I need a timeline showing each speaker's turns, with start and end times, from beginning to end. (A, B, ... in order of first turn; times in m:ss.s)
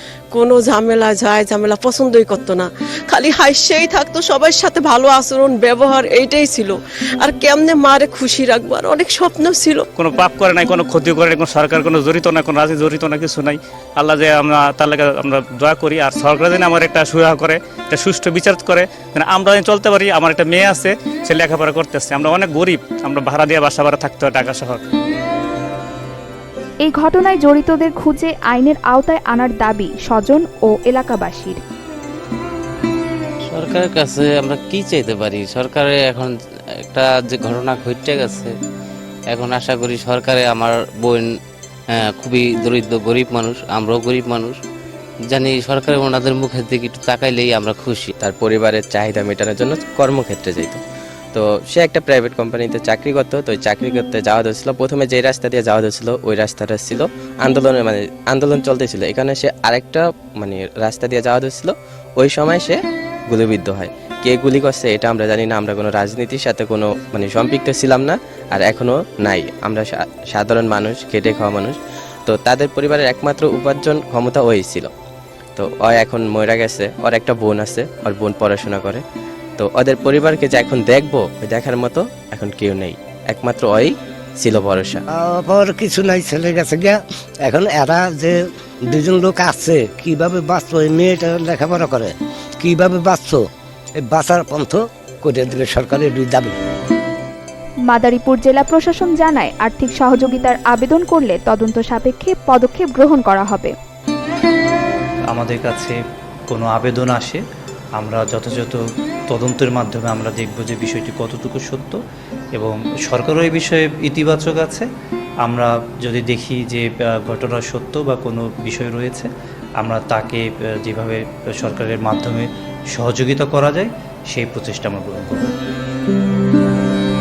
0:00.3-0:09.9 A
0:10.0-0:24.8 B
0:26.8-0:31.6 C
0:33.5-0:36.3 D
0:36.9-0:38.5 D
0:39.3-0:41.3 D
0:41.9-0:44.6 D
0:45.3-0:48.1 D
0:48.2-0:50.8 E
0:51.3-1:14.9 E
1:15.6-1:19.0 E
1:19.6-1:25.0 E
1:25.1-1:33.5 F
1:34.0-1:36.5 F
1:37.9-1:43.7 C
1:45.3-1:46.0 G
1:46.5-1:47.4 G
1:48.0-1:52.0 G
1:52.6-1:54.9 G
1:55.4-2:05.5 G